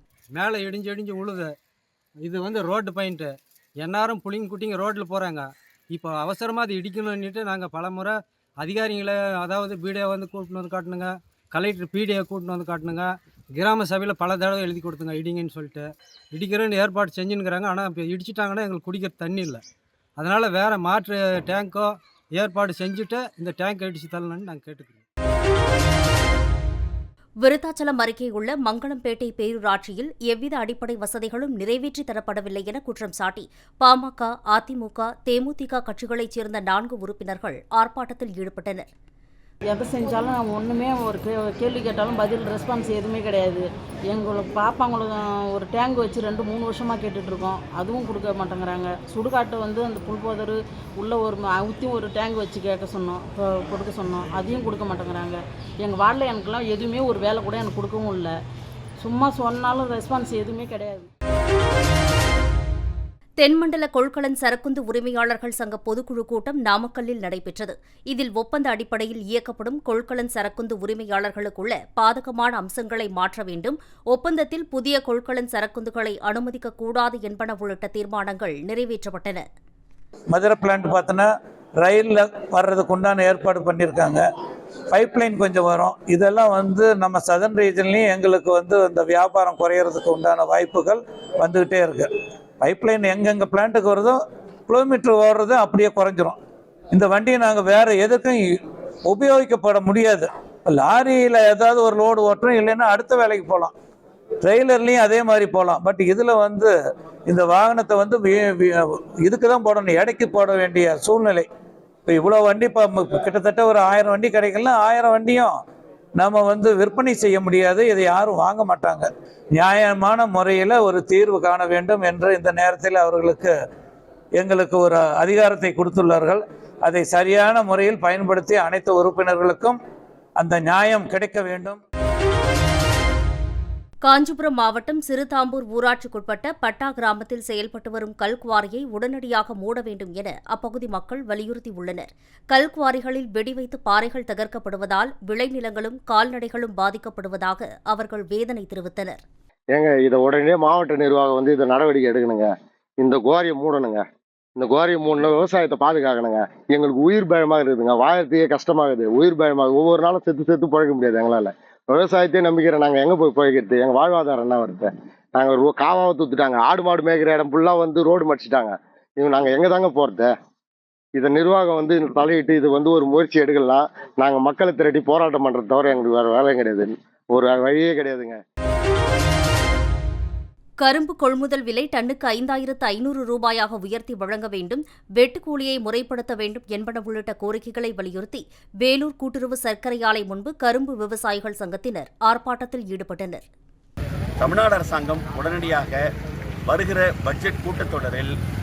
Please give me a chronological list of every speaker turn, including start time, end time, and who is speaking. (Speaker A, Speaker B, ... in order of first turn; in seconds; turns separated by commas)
Speaker A: 0.3-1.5, Speaker A: 2.2-19.6, Speaker A: 20.2-25.0, Speaker B: 27.4-38.9, Speaker C: 39.7-58.3, Speaker C: 59.0-61.1, Speaker B: 63.4-79.4, Speaker D: 80.3-81.3, Speaker D: 81.8-84.2, Speaker D: 84.9-92.1, Speaker D: 92.6-96.4, Speaker D: 96.9-98.4, Speaker D: 99.0-103.7, Speaker D: 104.4-106.7, Speaker D: 107.3-111.5, Speaker D: 112.1-115.5, Speaker D: 116.2-123.5, Speaker D: 124.4-129.8, Speaker D: 130.4-131.8, Speaker B: 134.0-149.2, Speaker E: 149.7-154.0, Speaker E: 154.6-170.3, Speaker E: 171.2-178.4, Speaker B: 180.8-193.4, Speaker F: 194.4-196.0, Speaker F: 196.7-198.3